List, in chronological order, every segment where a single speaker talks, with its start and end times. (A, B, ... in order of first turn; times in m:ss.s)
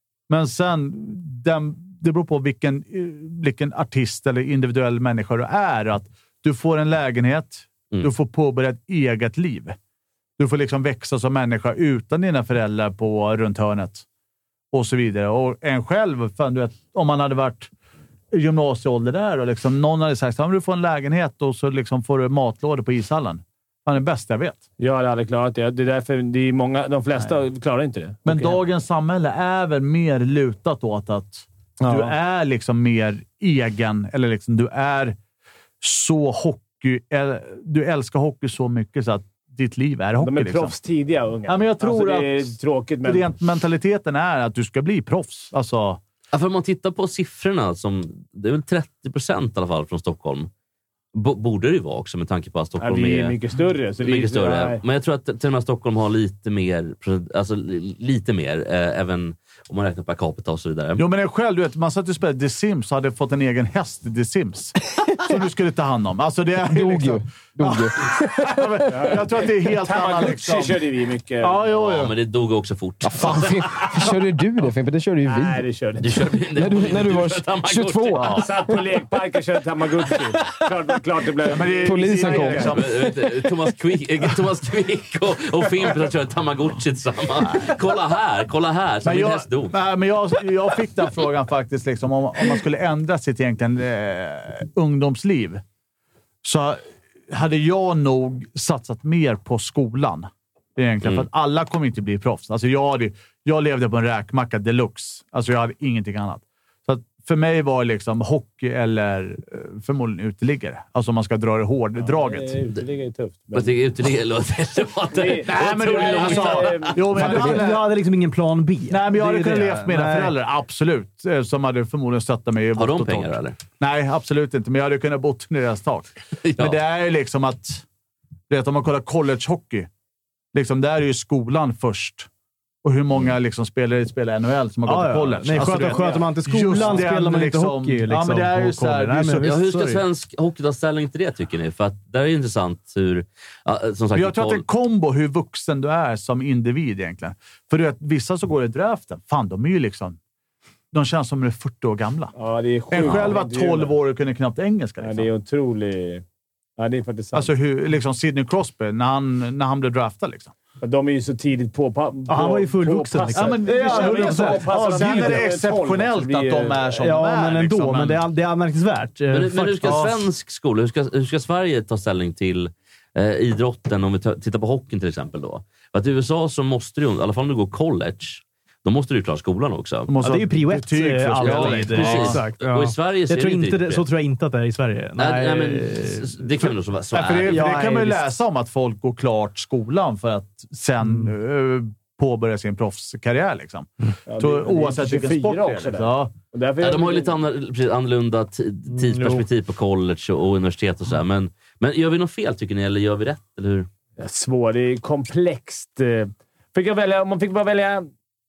0:00.3-0:09.8 A
0:10.4-0:14.0 A
0:14.7-0:17.7 A
0:18.3-0:24.6 A
0:24.8-0:28.6 B
0:28.3-0:35.2 A
0:31.8-0:32.1 B
0:35.8-0:40.8 A
0:40.2-0:43.3 B
0:41.5-0:42.5 A
0:43.0-0:46.0 A
0:46.3-0:50.5 C
0:51.1-0:53.4 C
0:52.8-0:54.8 B
0:54.0-1:01.0 C
1:01.0-1:10.8 A
1:06.6-1:09.1 D
1:08.9-1:09.2 B
1:09.8-1:11.6 B
1:11.4-1:12.1 A
1:11.7-1:13.9 C
1:13.0-1:15.6 D
1:15.3-1:16.2 B
1:16.0-1:18.4 C
1:16.5-1:18.8 D
1:18.2-1:18.4 A
1:18.3-1:22.8 B
1:21.4-1:23.4 A
1:21.8-1:22.8 D
1:22.7-1:29.8 C
1:29.0-1:35.6 A
1:36.4-1:52.6 A
1:52.0-1:53.7 B
1:53.5-1:57.1 C
1:55.1-1:57.0 B
1:55.5-1:57.9 A
1:57.1-2:00.3 E
1:57.3-1:57.6 D
1:58.9-2:07.8 A
2:02.8-2:03.6 C
2:06.4-2:06.8 C
2:08.5-2:09.9 A
2:10.5-2:12.3 A
2:12.8-2:19.5 A
2:14.8-2:20.0 E
2:15.6-2:17.1 B
2:19.4-2:24.6 C
2:24.1-2:30.2 A
2:30.9-2:32.3 A
2:32.4-2:33.9 B
2:32.9-2:35.3 A
2:33.0-2:33.3 C
2:35.0-2:36.2 B
2:36.8-2:37.5 B
2:37.3-2:40.5 A
2:40.8-2:46.9 B
2:42.3-2:45.5 E
2:43.4-2:48.2 A
2:47.0-2:50.1 E
2:49.3-3:00.1 C
2:49.8-2:50.1 A
3:00.1-3:02.4 A
3:00.2-3:06.4 E
3:01.4-3:04.0 C
3:05.2-3:07.7 C
3:07.1-3:16.3 A
3:07.5-3:08.3 E
3:11.0-3:11.3 E
3:14.3-3:17.4 B
3:16.8-3:23.9 C
3:18.9-3:19.4 E
3:24.2-3:28.1 B